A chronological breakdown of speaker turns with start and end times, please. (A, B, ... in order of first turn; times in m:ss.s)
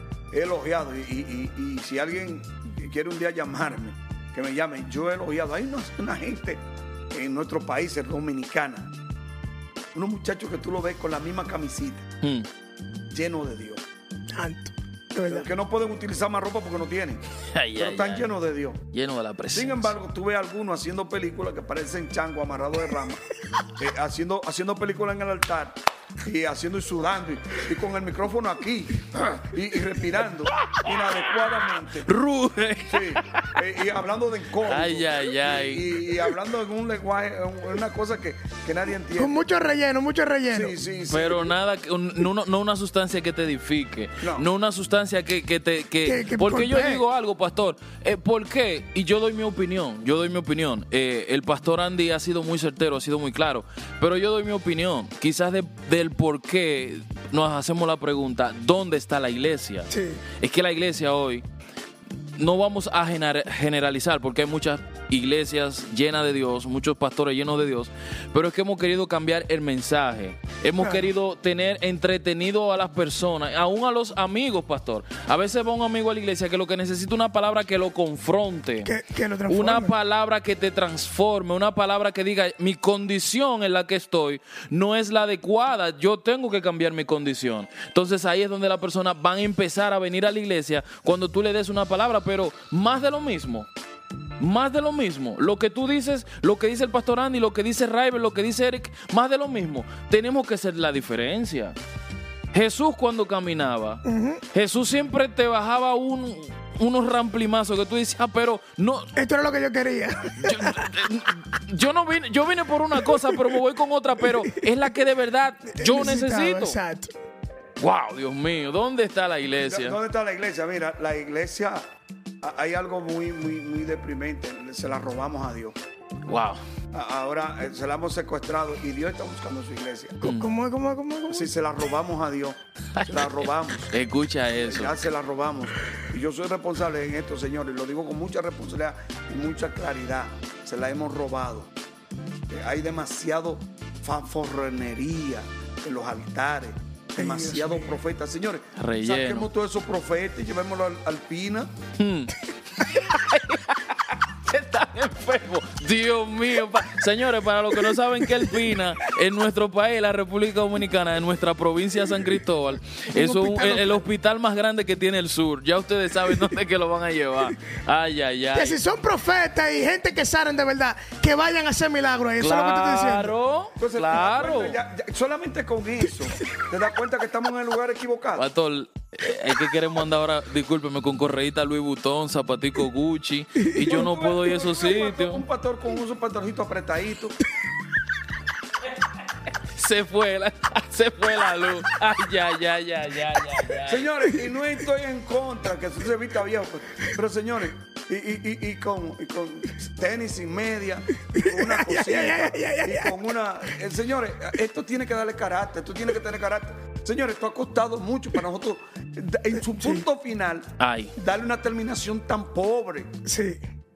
0:00.3-0:08.9 A
0:10.0-0:12.1 A
0:12.2-0:12.5 B
0:13.1-0:13.8 A
0:14.4-0:15.5 C
0:15.3-0:17.2 A
0:17.5-0:18.3 B
0:17.8-0:18.8 A
0:18.9-0:20.0 B
0:19.5-0:23.2 A
0:23.8-0:32.1 A
0:32.0-0:33.5 B
0:32.9-0:39.4 A
0:34.6-0:35.9 B
0:39.2-0:40.8 C
0:40.5-0:41.5 A
0:41.1-1:01.4 B
0:44.2-0:44.5 A
0:46.0-0:47.0 C
0:59.9-1:00.2 C
1:02.4-1:18.9 B
1:18.8-1:19.9 C
1:19.5-1:33.7 B
1:34.4-1:41.8 B
1:42.5-1:49.1 B
1:44.0-1:44.4 C
1:49.2-1:50.9 C
1:50.4-1:56.8 B
1:53.1-1:53.4 C
1:55.7-1:57.1 C
1:57.8-2:00.0 B
1:59.6-2:01.8 A
2:02.4-2:05.8 A
2:06.3-2:06.6 B
2:06.9-2:10.3 A
2:10.3-2:11.5 C
2:11.3-2:13.9 A
2:13.0-2:15.0 B
2:14.6-2:21.7 A
2:22.5-2:31.7 A
2:27.2-2:28.0 C
2:28.8-2:29.5 B
2:32.0-2:48.8 B
2:43.1-2:44.0 C
2:48.6-2:53.3 C
2:52.4-2:54.8 B
2:53.8-2:58.4 A
2:58.4-3:05.4 B
3:03.9-3:07.4 A
3:09.7-3:14.1 B
3:13.9-3:33.1 A
3:21.3-3:23.2 C
3:29.6-3:30.1 C
3:30.8-3:31.1 B
3:33.2-3:33.6 C